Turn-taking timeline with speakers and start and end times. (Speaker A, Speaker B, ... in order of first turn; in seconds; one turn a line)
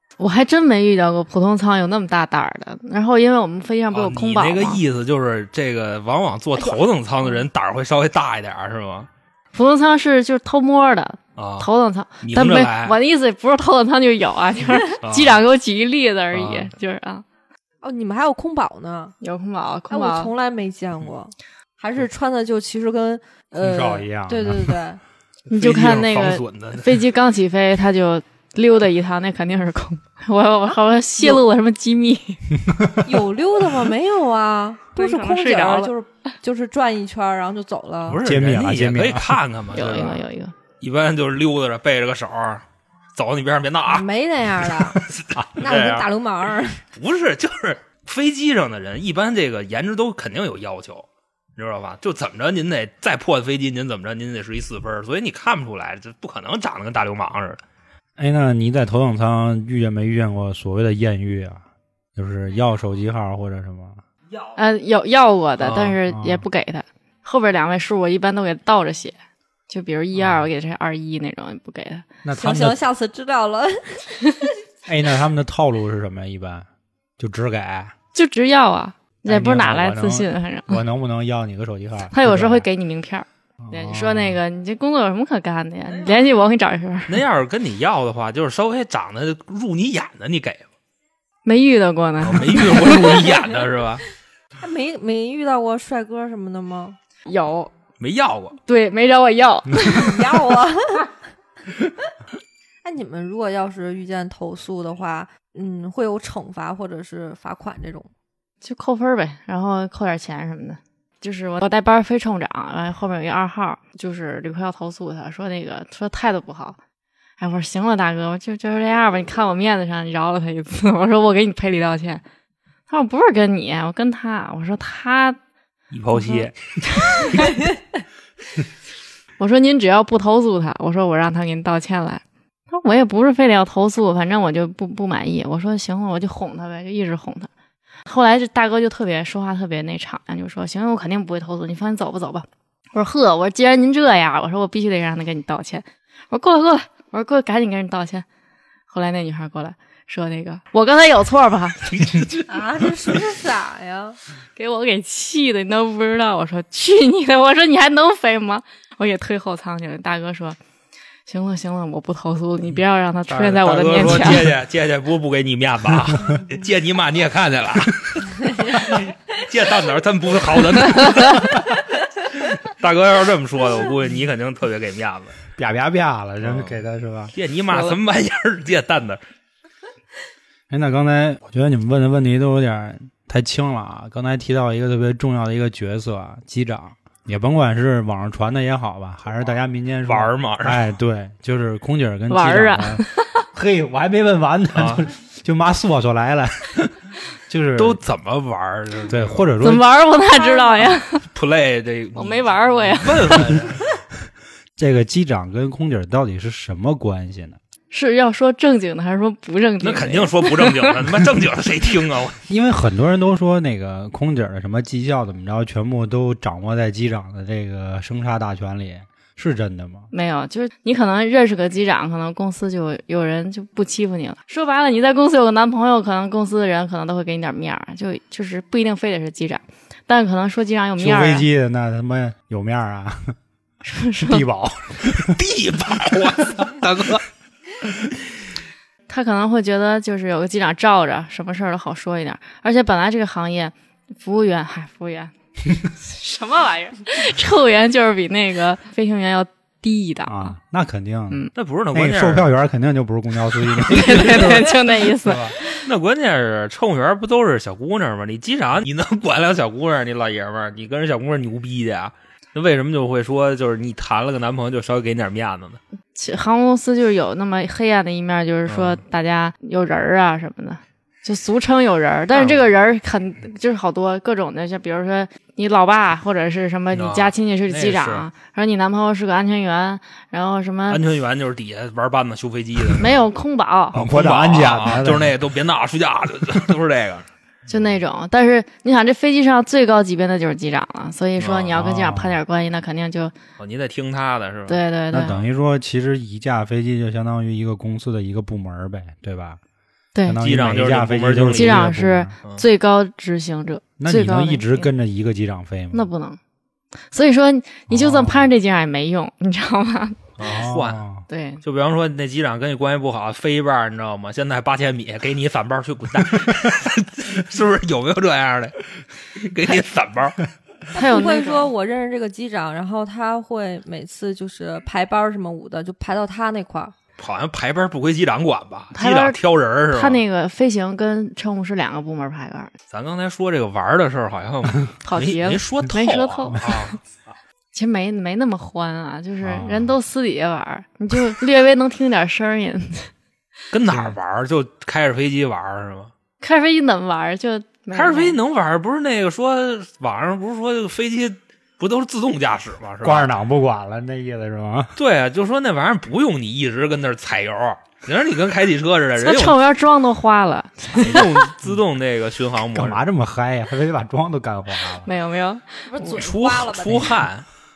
Speaker A: 0.2-4.8
Speaker B: 3.9-9.1
Speaker A: 9.5-17.2
Speaker B: 11.4-11.7
Speaker B: 12.2-13.0
Speaker B: 15.0-15.4
Speaker B: 16.3-16.7
Speaker C: 17.8-19.2
Speaker A: 19.2-20.3
Speaker C: 19.9-25.0
Speaker D: 23.6-24.8
Speaker A: 25.5-32.5
Speaker B: 25.5-27.0
Speaker D: 32.7-33.0
Speaker C: 33.0-38.2
Speaker A: 35.0-35.9
Speaker B: 38.1-40.2
Speaker D: 38.2-39.4
Speaker A: 39.8-40.5
Speaker B: 40.8-42.6
Speaker B: 43.1-44.1
Speaker C: 43.9-46.8
Speaker B: 44.6-46.1
Speaker B: 47.0-57.6
Speaker D: 58.2-61.6
Speaker D: 62.2-64.0
Speaker A: 64.6-69.2
Speaker B: 65.6-66.0
Speaker D: 66.1-66.4
Speaker A: 69.7-72.1
Speaker D: 70.2-70.5
Speaker D: 72.2-72.8
Speaker C: 72.3-74.4
Speaker D: 74.9-76.7
Speaker D: 77.2-77.9
Speaker A: 78.1-80.8
Speaker D: 79.3-82.7
Speaker A: 82.1-87.2
Speaker D: 83.6-84.4
Speaker B: 87.1-90.7
Speaker A: 91.5-93.2
Speaker B: 92.2-94.0
Speaker C: 94.6-97.0
Speaker A: 97.3-97.7
Speaker B: 98.0-98.6
Speaker A: 98.7-100.2
Speaker C: 99.8-101.1
Speaker C: 102.8-108.1
Speaker A: 108.6-116.8
Speaker A: 117.4-122.2
Speaker A: 122.9-125.4
Speaker B: 125.9-126.6
Speaker A: 126.1-127.5
Speaker A: 129.4-137.5
Speaker A: 138.1-148.2
Speaker A: 148.9-152.2
Speaker B: 151.9-152.4
Speaker C: 152.5-154.2
Speaker A: 154.6-160.6
Speaker A: 161.3-164.5
Speaker B: 163.3-171.8
Speaker B: 172.3-175.4
Speaker D: 175.6-177.3
Speaker B: 176.4-176.8
Speaker B: 177.3-179.2
Speaker D: 180.7-196.9
Speaker B: 190.1-190.8
Speaker A: 192.3-193.4
Speaker B: 194.7-195.1
Speaker D: 197.5-198.0
Speaker B: 197.8-199.5
Speaker D: 199.1-199.9
Speaker A: 199.6-201.2
Speaker B: 201.3-203.9
Speaker A: 202.2-203.6
Speaker D: 204.8-207.6
Speaker A: 207.9-211.0
Speaker B: 209.8-212.4
Speaker D: 212.5-220.1
Speaker A: 220.1-231.5
Speaker D: 231.0-233.3
Speaker A: 233.8-234.4
Speaker D: 234.2-235.4
Speaker B: 235.2-237.2
Speaker A: 239.1-245.3
Speaker A: 246.0-250.6
Speaker D: 250.3-255.6
Speaker B: 251.6-252.5
Speaker A: 253.9-255.8
Speaker B: 255.7-265.8
Speaker A: 266.2-281.0
Speaker B: 268.7-269.0
Speaker B: 272.3-272.6
Speaker B: 276.9-278.3
Speaker B: 280.9-283.1
Speaker A: 283.0-284.0
Speaker D: 283.9-285.4
Speaker B: 283.9-287.3
Speaker A: 287.7-293.4
Speaker B: 291.4-291.8
Speaker D: 291.7-292.4
Speaker B: 293.6-294.8
Speaker A: 294.7-295.4
Speaker D: 295.1-299.6
Speaker A: 300.1-300.4
Speaker D: 300.2-302.3
Speaker B: 300.4-301.9
Speaker A: 301.6-304.9
Speaker D: 304.0-306.1
Speaker A: 305.9-306.4
Speaker A: 307.1-310.3
Speaker D: 307.9-308.5
Speaker B: 310.4-311.1
Speaker D: 310.4-311.2
Speaker A: 311.3-311.6
Speaker B: 311.6-318.8
Speaker B: 319.4-320.4
Speaker A: 320.9-321.7
Speaker C: 320.9-326.9
Speaker B: 327.2-330.2
Speaker A: 328.9-329.4
Speaker A: 329.9-332.7
Speaker B: 332.9-337.1
Speaker A: 335.0-336.9
Speaker A: 337.7-343.1
Speaker D: 339.4-339.9
Speaker B: 343.7-346.1
Speaker D: 343.9-344.1
Speaker A: 346.4-348.4
Speaker B: 347.9-353.3
Speaker D: 353.0-354.9
Speaker B: 355.0-359.6
Speaker A: 359.2-361.4
Speaker B: 361.0-363.0
Speaker D: 362.7-365.1
Speaker A: 365.1-365.9
Speaker C: 365.9-367.2
Speaker B: 366.0-367.5